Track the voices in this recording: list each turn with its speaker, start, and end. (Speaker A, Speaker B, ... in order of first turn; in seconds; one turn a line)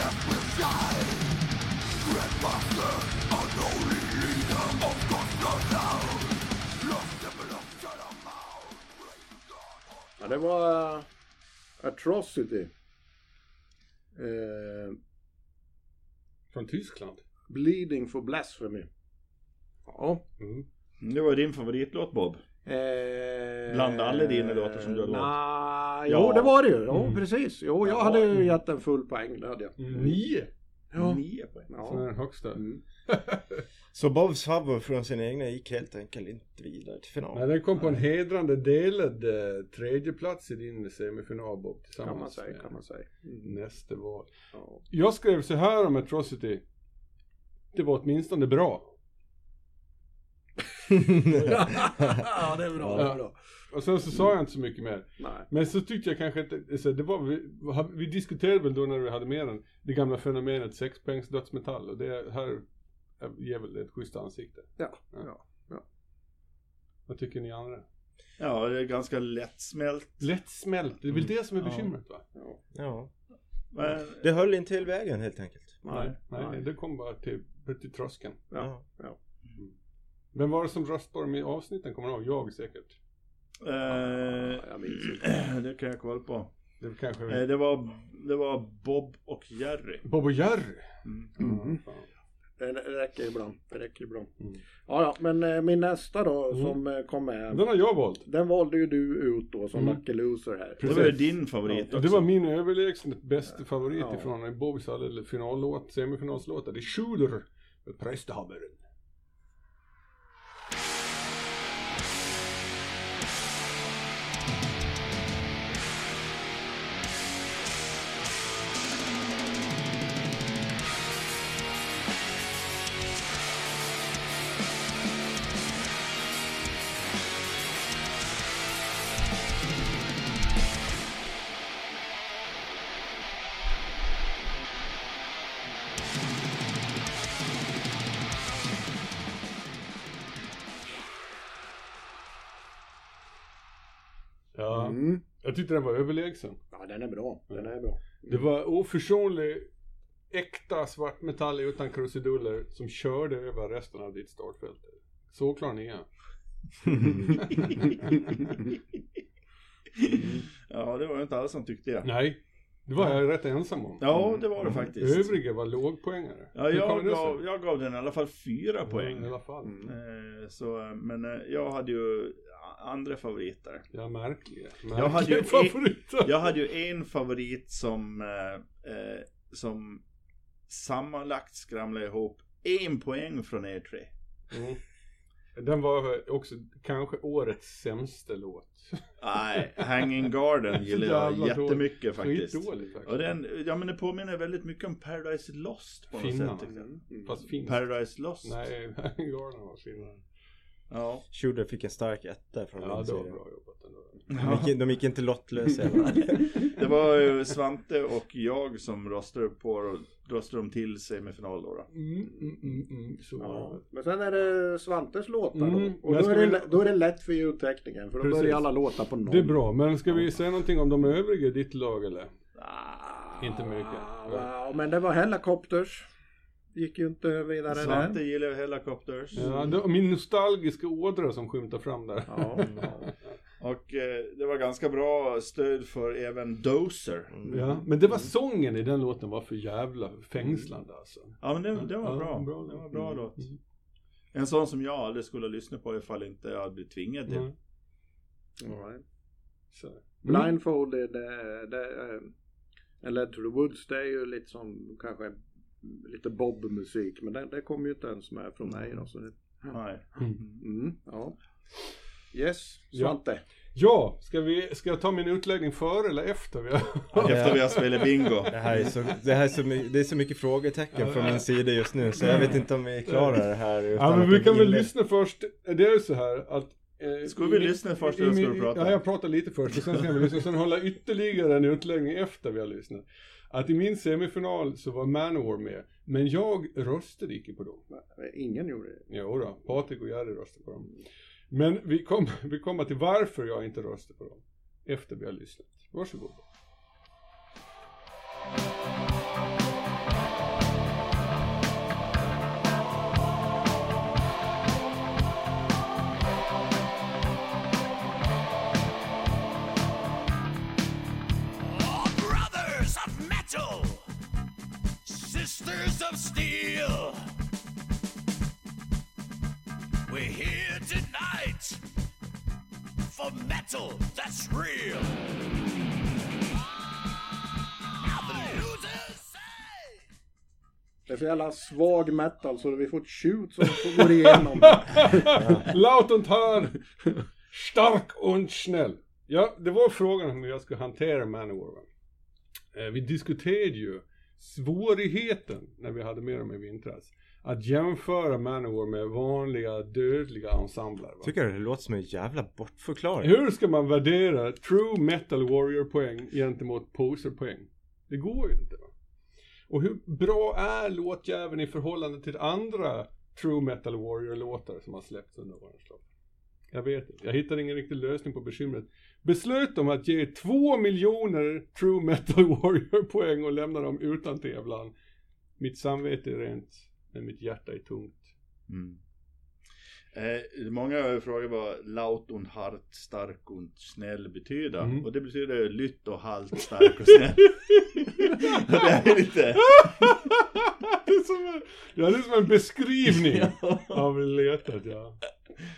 Speaker A: 3.7-4.4
Speaker B: 10.2-11.1
Speaker B: 11.8-12.7
Speaker B: 14.2-15.0
Speaker C: 16.5-17.2
Speaker B: 17.5-18.9
Speaker B: 19.9-20.3
Speaker C: 20.4-20.7
Speaker D: 21.0-22.4
Speaker B: 22.7-30.2
Speaker D: 23.7-25.4
Speaker D: 26.1-26.6
Speaker C: 26.9-27.2
Speaker D: 27.8-28.4
Speaker C: 29.8-30.5
Speaker B: 30.9-32.8
Speaker D: 30.9-31.7
Speaker C: 31.8-33.6
Speaker E: 33.9-37.5
Speaker C: 37.3-42.7
Speaker B: 42.0-43.5
Speaker C: 43.4-44.3
Speaker B: 44.5-44.8
Speaker C: 44.9-46.6
Speaker C: 47.7-48.9
Speaker E: 50.9-53.1
Speaker B: 51.4-53.4
Speaker C: 51.4-51.8
Speaker C: 52.9-62.6
Speaker B: 55.2-55.5
Speaker C: 63.2-65.2
Speaker B: 64.8-65.8
Speaker C: 67.1-67.8
Speaker D: 68.4-70.3
Speaker C: 70.2-72.2
Speaker E: 72.8-73.1
Speaker D: 73.7-74.2
Speaker E: 74.2-75.8
Speaker B: 75.8-76.6
Speaker C: 75.9-78.4
Speaker B: 78.5-79.2
Speaker C: 80.3-83.0
Speaker D: 83.6-86.5
Speaker B: 83.9-85.3
Speaker C: 86.8-87.5
Speaker D: 87.3-90.0
Speaker C: 90.0-92.0
Speaker D: 91.0-91.3
Speaker B: 91.4-91.8
Speaker B: 92.6-94.3
Speaker B: 94.9-97.7
Speaker C: 96.5-96.8
Speaker C: 97.5-98.2
Speaker B: 98.2-101.2
Speaker C: 100.8-101.2
Speaker D: 100.8-102.3
Speaker C: 101.9-108.8
Speaker B: 104.0-104.3
Speaker C: 144.6-146.6
Speaker B: 144.7-145.2
Speaker B: 146.7-148.4
Speaker C: 147.5-149.7
Speaker C: 150.3-156.1
Speaker C: 157.3-158.5
Speaker D: 159.9-162.1
Speaker C: 162.0-167.4
Speaker D: 164.0-165.4
Speaker D: 166.5-173.8
Speaker C: 168.8-169.8
Speaker B: 169.6-169.9
Speaker C: 173.9-176.5
Speaker D: 174.9-180.0
Speaker D: 180.7-184.1
Speaker C: 184.5-184.8
Speaker C: 185.6-189.1
Speaker D: 189.2-196.8
Speaker C: 190.8-193.3
Speaker C: 196.1-197.9
Speaker B: 196.7-197.4
Speaker D: 197.3-198.6
Speaker C: 198.4-200.2
Speaker D: 200.9-201.2
Speaker E: 201.3-203.4
Speaker C: 202.8-204.3
Speaker D: 204.3-204.7
Speaker E: 204.4-206.6
Speaker D: 206.5-211.9
Speaker C: 211.9-213.8
Speaker B: 213.4-220.3
Speaker C: 215.5-216.9
Speaker C: 218.2-218.7
Speaker C: 219.2-222.3
Speaker D: 222.6-223.3
Speaker B: 222.9-226.1
Speaker C: 223.4-224.5
Speaker B: 226.7-228.2
Speaker D: 227.7-229.4
Speaker C: 229.3-233.1
Speaker B: 229.4-229.8
Speaker B: 232.3-233.1
Speaker D: 233.6-237.4
Speaker E: 237.3-237.6
Speaker B: 237.5-238.3
Speaker C: 237.5-243.6
Speaker B: 240.4-240.7
Speaker D: 241.4-243.5
Speaker D: 244.3-247.5
Speaker B: 248.6-249.0
Speaker C: 249.7-250.6
Speaker B: 250.2-252.3
Speaker B: 253.0-259.8
Speaker D: 259.7-260.6
Speaker B: 260.6-261.4
Speaker B: 262.3-263.4
Speaker C: 262.9-263.2
Speaker C: 263.8-269.1
Speaker D: 267.2-268.6
Speaker E: 267.2-267.7
Speaker E: 268.5-274.9
Speaker C: 270.9-271.5
Speaker C: 272.1-287.8
Speaker D: 277.2-279.0
Speaker B: 287.9-289.1
Speaker C: 289.1-296.4
Speaker A: 311.6-314.1
Speaker A: 315.1-317.2
Speaker A: 320.1-321.8
Speaker A: 323.1-325.2
Speaker A: 328.1-329.9
Speaker B: 331.1-335.6
Speaker C: 333.6-336.9
Speaker E: 335.4-335.6
Speaker C: 337.5-341.9
Speaker C: 342.7-351.3
Speaker E: 351.2-353.3
Speaker C: 353.2-358.9
Speaker C: 359.7-366.0
Speaker C: 366.7-374.9
Speaker C: 375.6-378.3
Speaker D: 378.7-379.0
Speaker D: 380.1-390.1
Speaker C: 389.6-395.2
Speaker D: 393.1-394.0